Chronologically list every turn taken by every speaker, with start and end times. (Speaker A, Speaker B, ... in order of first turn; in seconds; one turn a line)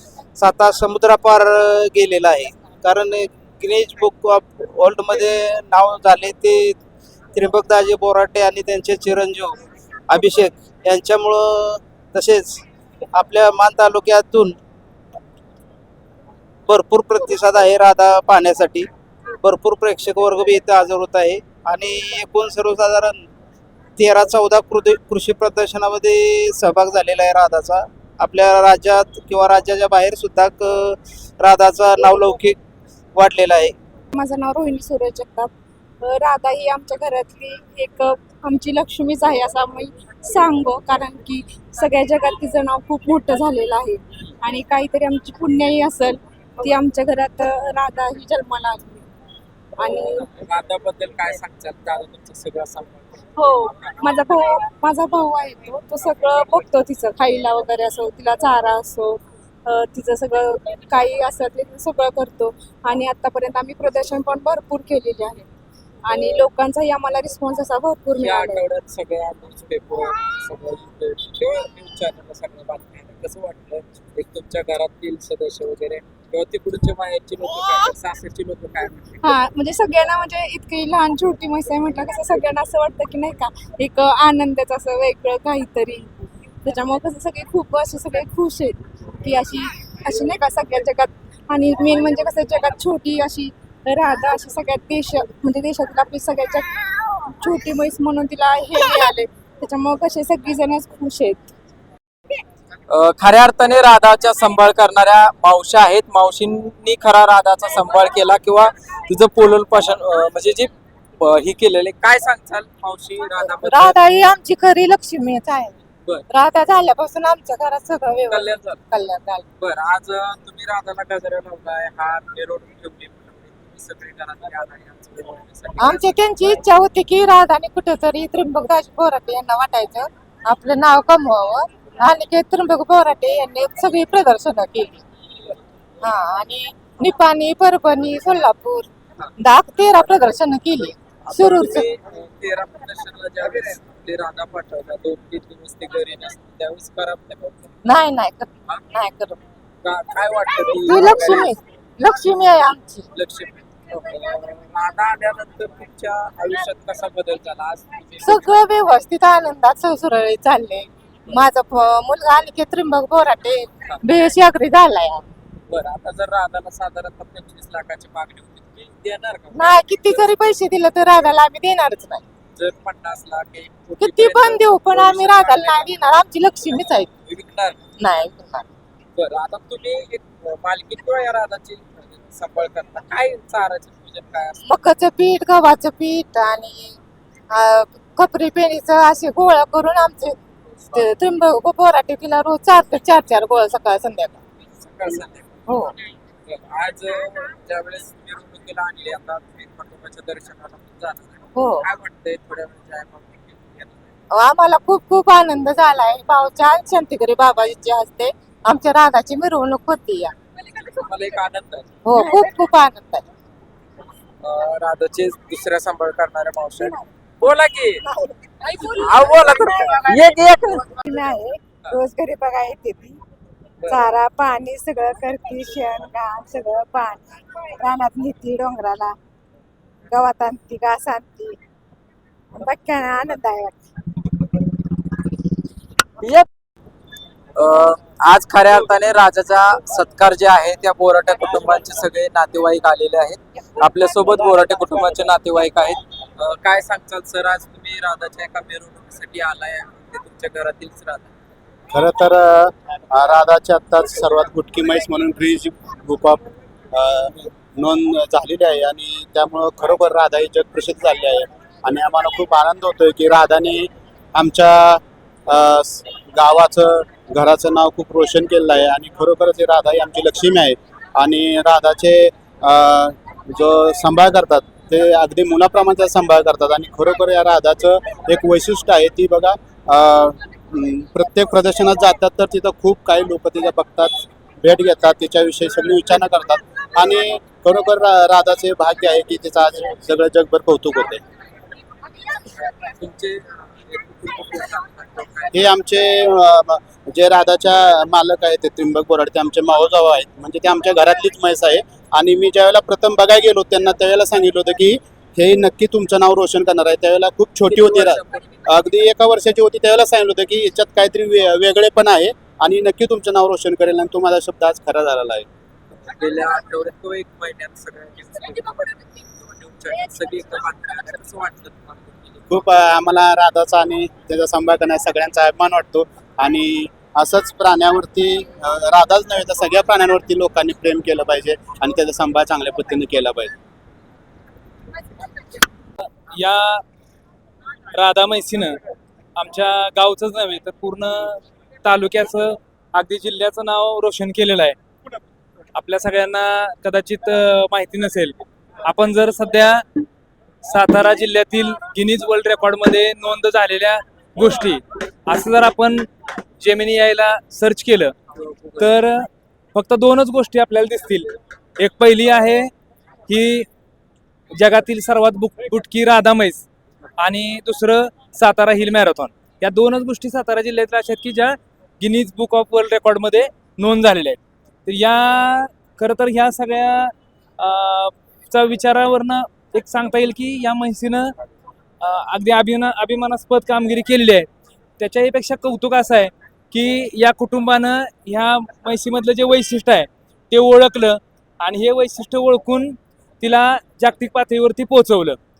Speaker A: 0.4-6.8
Speaker A: 7.3-9.6
Speaker A: 10.1-12.6
Speaker A: 13.1-14.6
Speaker A: 16.7-18.9
Speaker A: 19.4-23.2
Speaker A: 24.0-32.6
Speaker A: 33.1-33.8
Speaker B: 34.1-35.5
Speaker B: 36.0-49.0
Speaker B: 49.8-50.3
Speaker C: 50.3-54.0
Speaker B: 53.4-65.5
Speaker B: 66.1-68.6
Speaker C: 68.2-79.4
Speaker B: 79.2-86.1
Speaker B: 86.6-101.5
Speaker C: 102.9-114.0
Speaker D: 113.4-115.8
Speaker D: 116.3-119.4
Speaker C: 118.3-118.8
Speaker C: 119.6-126.5
Speaker D: 125.8-134.9
Speaker D: 136.0-138.8
Speaker D: 139.4-141.8
Speaker C: 141.2-147.7
Speaker D: 147.8-149.4
Speaker C: 149.8-151.5
Speaker D: 150.8-153.1
Speaker C: 153.1-158.7
Speaker D: 158.2-165.2
Speaker C: 165.7-170.3
Speaker D: 169.5-172.2
Speaker C: 172.6-175.9
Speaker D: 174.0-177.1
Speaker C: 177.2-177.8
Speaker D: 178.0-178.6
Speaker C: 179.2-184.6
Speaker D: 184.6-186.9
Speaker D: 187.5-190.3
Speaker D: 190.9-194.4
Speaker C: 194.8-195.5
Speaker D: 195.7-195.9
Speaker C: 196.5-204.1
Speaker D: 201.6-201.8
Speaker D: 204.3-210.3
Speaker C: 210.6-211.9
Speaker D: 212.1-213.2
Speaker C: 214.4-218.0
Speaker D: 218.1-223.2
Speaker C: 219.0-221.0
Speaker D: 223.9-229.1
Speaker D: 230.1-231.5
Speaker D: 232.6-233.7
Speaker C: 236.2-236.5
Speaker C: 237.6-251.3
Speaker E: 251.9-291.2
Speaker C: 292.6-295.7
Speaker E: 295.5-315.4
Speaker C: 307.7-308.7
Speaker C: 316.1-322.7
Speaker E: 322.5-333.5
Speaker F: 336.3-336.8
Speaker F: 337.9-338.8
Speaker F: 339.4-344.8
Speaker F: 345.7-349.8
Speaker F: 350.6-356.1
Speaker F: 356.6-358.1
Speaker F: 358.8-362.7
Speaker F: 363.3-363.7
Speaker F: 364.6-366.7
Speaker F: 367.2-381.3
Speaker F: 382.0-384.5
Speaker F: 385.0-395.4